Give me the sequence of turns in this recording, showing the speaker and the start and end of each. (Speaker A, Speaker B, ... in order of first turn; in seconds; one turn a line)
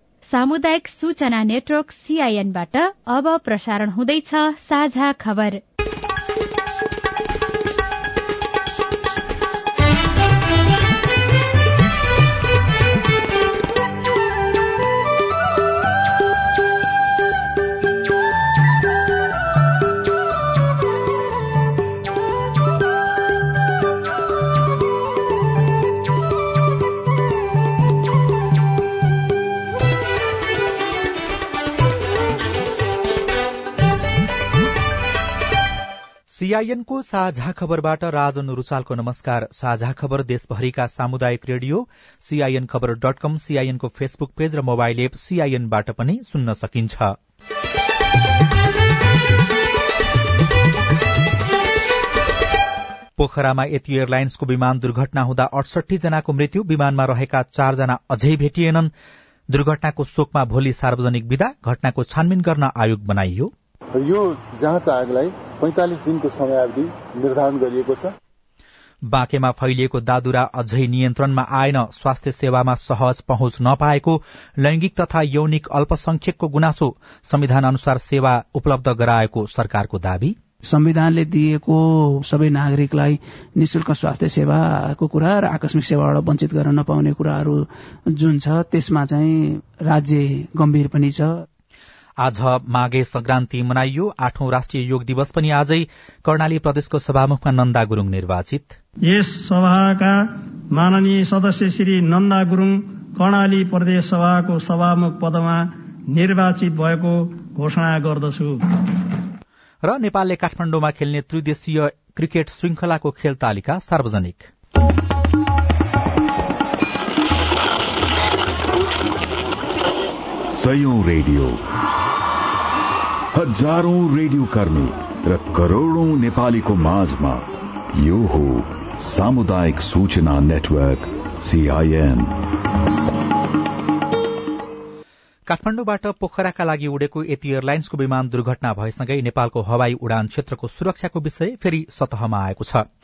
Speaker A: 0.3-5.6
Speaker B: 36.3-47.1
Speaker B: 53.2-58.9
Speaker B: 59.5-63.5
Speaker C: 64.0-68.1
Speaker B: 69.1-80.3
Speaker D: 80.7-87.6
Speaker D: 88.2-91.4
Speaker B: 92.2-98.8
Speaker E: 99.1-100.2
Speaker E: 100.7-108.6
Speaker B: 109.8-114.5
Speaker F: 120.5-121.6
Speaker F: 123.3-132.3
Speaker B: 135.5-142.9